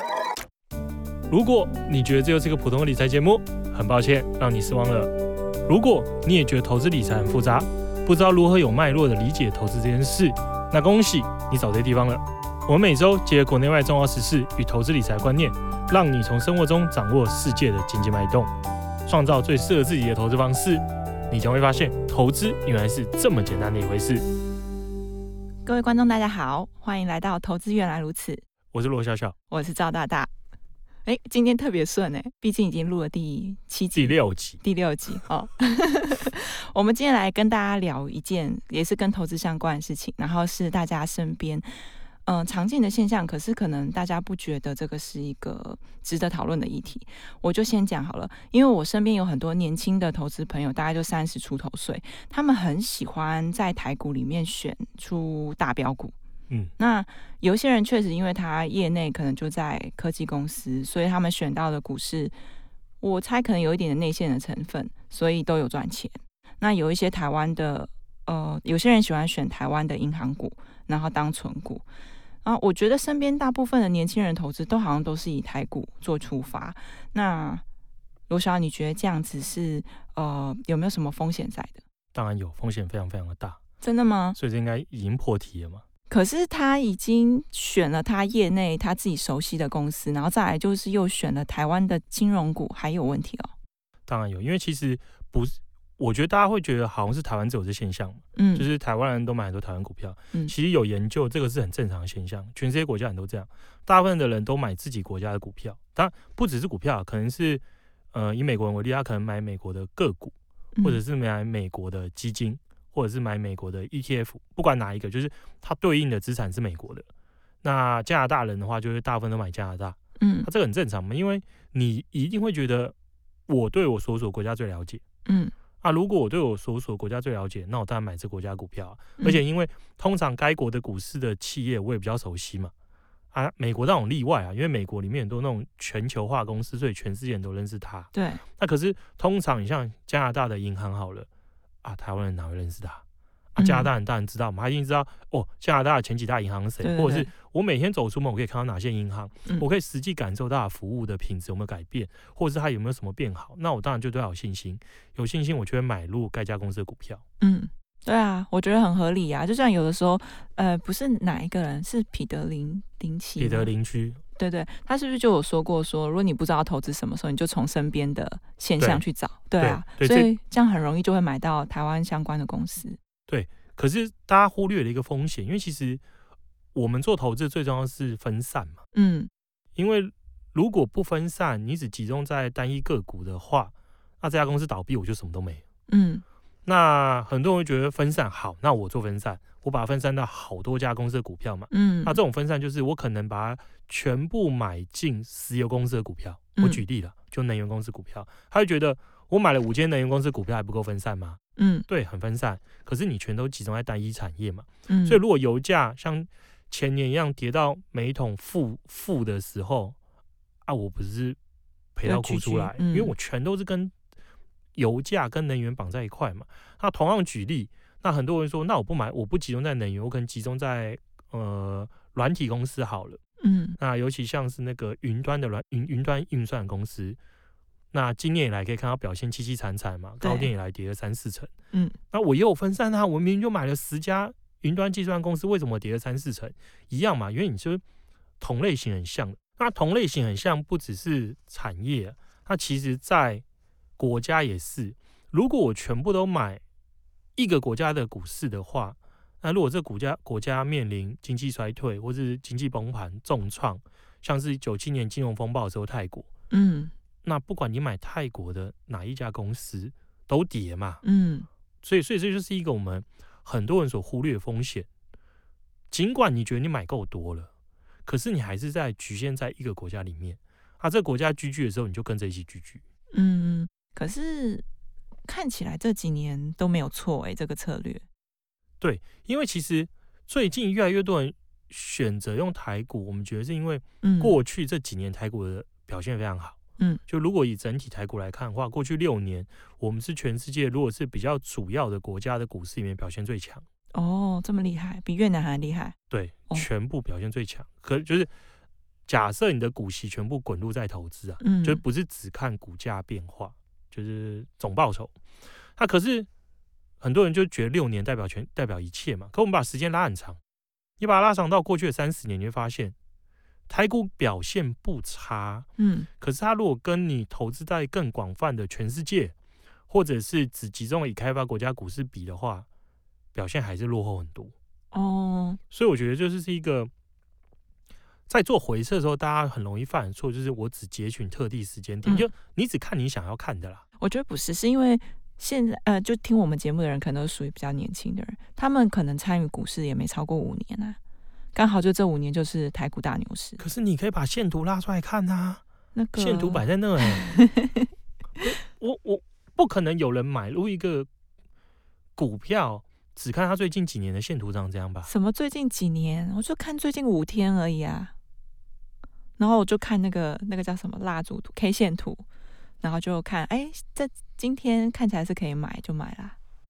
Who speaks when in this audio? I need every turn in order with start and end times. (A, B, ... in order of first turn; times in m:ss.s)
0:01.3-0:05.1 A
0:05.7-0:18.5 A
0:19.1-0:24.2 A
0:25.6-0:28.4 B
0:28.7-0:29.4 A
0:29.5-0:30.3 B
0:31.0-0:56.2 B
0:34.0-0:34.6 A
0:56.8-1:02.4 B
1:03.0-1:11.8 B
1:12.4-1:17.6 B
1:18.3-1:21.8 B
1:22.1-1:23.6 A
1:23.8-1:24.4 B
1:24.4-1:25.8 A
1:26.1-1:33.5 B
1:34.1-1:57.1 A
1:38.4-1:38.7 B
1:57.6-2:03.0 A
2:00.2-2:00.5 B
2:03.5-2:05.0 A
2:05.3-2:05.5 B
2:05.8-2:12.7 A
2:13.3-2:21.3 A
2:18.1-2:18.4 B
2:21.8-2:23.0 A
2:23.6-2:37.2 A
2:23.6-2:23.9 B
2:26.8-2:27.3 B
2:37.4-2:43.7 B
2:43.4-2:44.2 A
2:44.4-2:53.0 B
2:49.6-2:50.3 A
2:53.3-2:56.0 A
2:56.7-2:58.8 A
2:58.9-2:59.3 B
2:59.8-3:05.6 A
3:05.9-3:06.2 B
3:06.6-3:30.0 A
3:11.7-3:12.2 B
3:16.6-3:16.8 B
3:21.6-3:21.9 B
3:24.9-3:25.2 B
3:30.7-3:31.4 A
3:32.0-3:33.9 A
3:32.0-3:33.1 B
3:34.8-3:43.2 A
3:43.4-3:43.8 B
3:43.8-3:47.2 A
3:47.9-3:51.5 A
3:50.2-3:50.5 B
3:51.7-3:52.0 B
3:52.1-3:57.8 A
3:58.4-4:03.4 A
4:04.0-4:06.6 A
4:07.4-4:16.3 A
4:16.5-4:16.9 B
4:17.2-4:21.0 A
4:21.0-4:21.5 B
4:21.8-4:24.9 A
4:25.9-4:27.5 A
4:28.1-4:32.8 A
4:33.1-4:34.6 B
4:35.3-4:38.0 B
4:38.8-4:46.6 A
4:44.0-4:44.3 B
4:47.1-4:53.6 A
4:53.9-4:56.0 B
4:56.1-4:58.3 A
4:59.1-5:05.2 A
5:01.4-5:01.8 B
5:05.8-5:06.3 A
5:07.0-5:10.4 A
5:11.0-5:13.0 A
5:13.7-5:15.7 A
5:15.8-5:16.1 B
5:16.2-5:19.3 A
5:19.9-5:22.7 A
5:23.3-5:24.5 A
5:24.9-5:25.6 B
5:25.7-5:26.9 A
5:28.3-5:33.8 A
5:34.0-5:41.0 B
5:41.5-5:43.6 B
5:43.6-5:45.6 A
5:46.0-5:47.9 B
5:46.2-5:47.3 A
5:48.4-5:51.1 A
5:52.2-5:55.1 A
5:55.1-5:58.1 B
5:59.4-6:02.3 B
6:02.8-6:06.4 B